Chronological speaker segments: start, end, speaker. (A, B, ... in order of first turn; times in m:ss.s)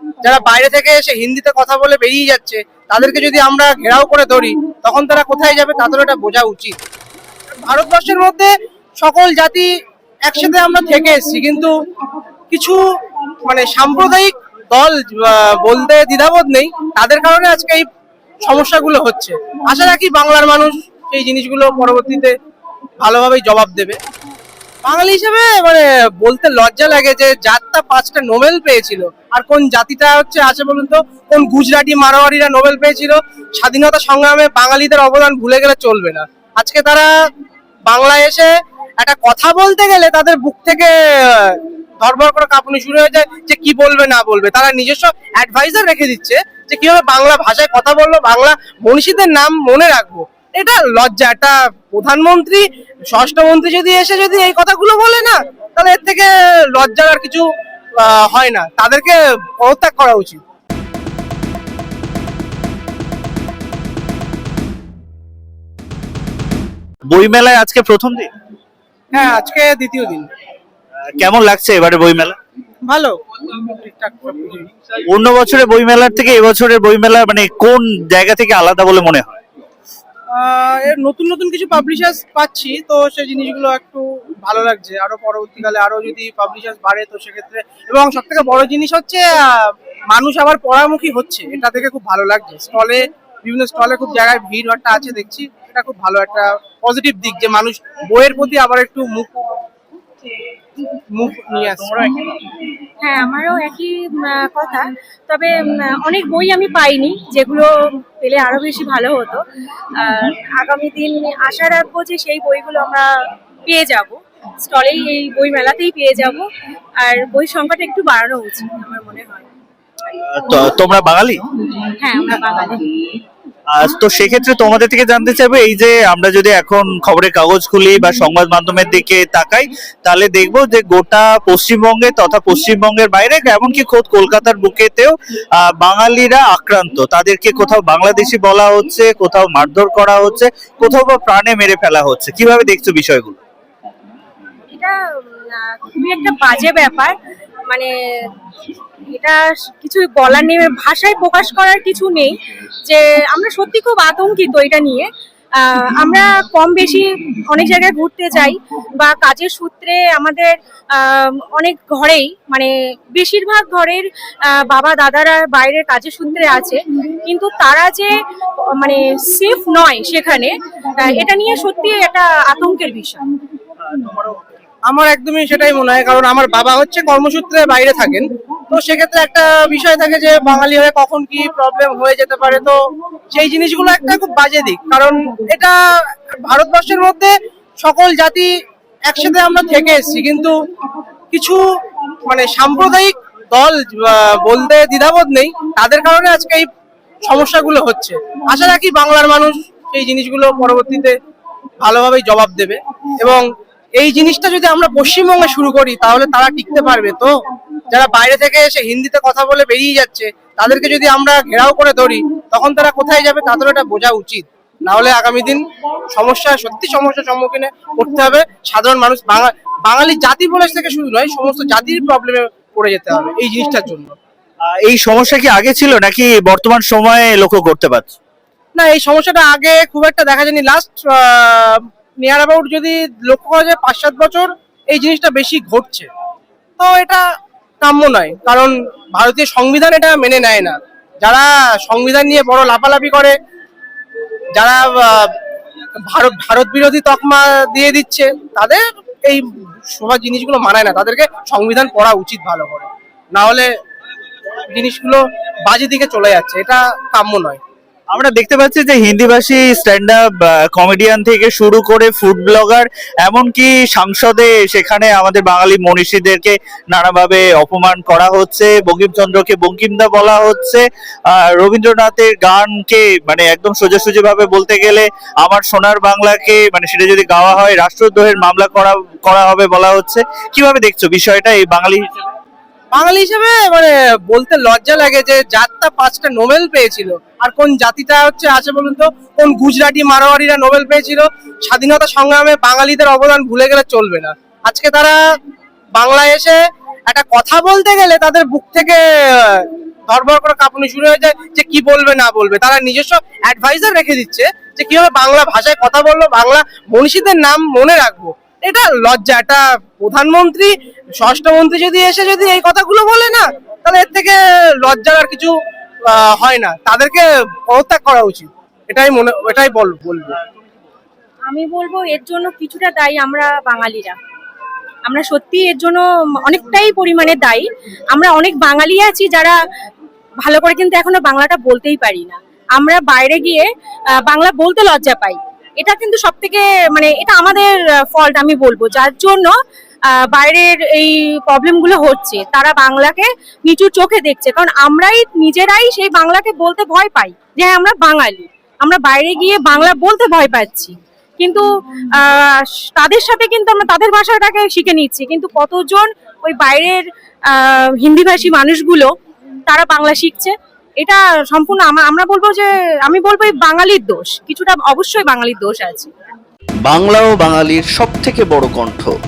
0:00.2-0:06.8 A
0:07.6-0:09.7 A
0:10.3-0:11.7 A
0:12.5-0:12.8 A
0:13.4-0:17.9 A
0:18.4-0:22.3 A
0:23.0-0:24.0 A
0:24.8-0:37.1 A
0:37.9-0:57.5 A
0:58.0-1:00.4 A
1:07.1-1:08.3 B
1:09.1-1:10.3 A
1:11.2-1:12.4 B
1:12.9-1:14.7 A
1:15.1-1:19.4 B
1:20.3-1:39.5 A
1:41.1-1:42.3 A
1:43.0-1:45.5 C
1:46.0-1:47.7 C
1:48.2-1:49.4 C
1:50.0-1:53.1 C
1:53.7-1:56.4 C
1:57.0-1:59.5 C
2:00.2-2:01.4 B
2:02.0-2:02.9 C
2:03.7-2:23.4 B
2:24.7-2:27.1 C
2:29.2-2:32.3 C
2:32.9-2:48.1 C
2:48.8-2:53.2 C
2:53.9-2:54.4 B
2:54.9-3:02.8 A
3:03.3-3:05.8 A
3:06.4-3:08.5 A
3:09.1-3:10.6 A
3:11.3-3:11.6 A
3:12.2-3:16.7 A
3:17.3-3:21.2 A
3:21.8-3:23.4 A
3:24.0-3:27.3 A
3:27.9-3:44.2 A
3:44.9-3:48.2 B
3:48.8-3:56.1 A
3:56.8-3:57.2 A
3:57.8-4:03.3 A
4:04.6-4:05.3 A
4:06.1-4:13.7 A
4:14.7-4:17.6 A
4:18.1-4:42.1 B
4:42.9-4:55.2 A
4:56.0-5:15.5 A
5:16.1-5:20.4 A
5:21.5-5:24.2 C
5:25.1-5:29.6 C
5:30.4-5:33.7 C
5:34.3-5:39.5 C
5:40.3-5:51.7 C
5:52.2-5:59.1 C
5:59.7-6:06.1 C
6:06.9-6:09.1 D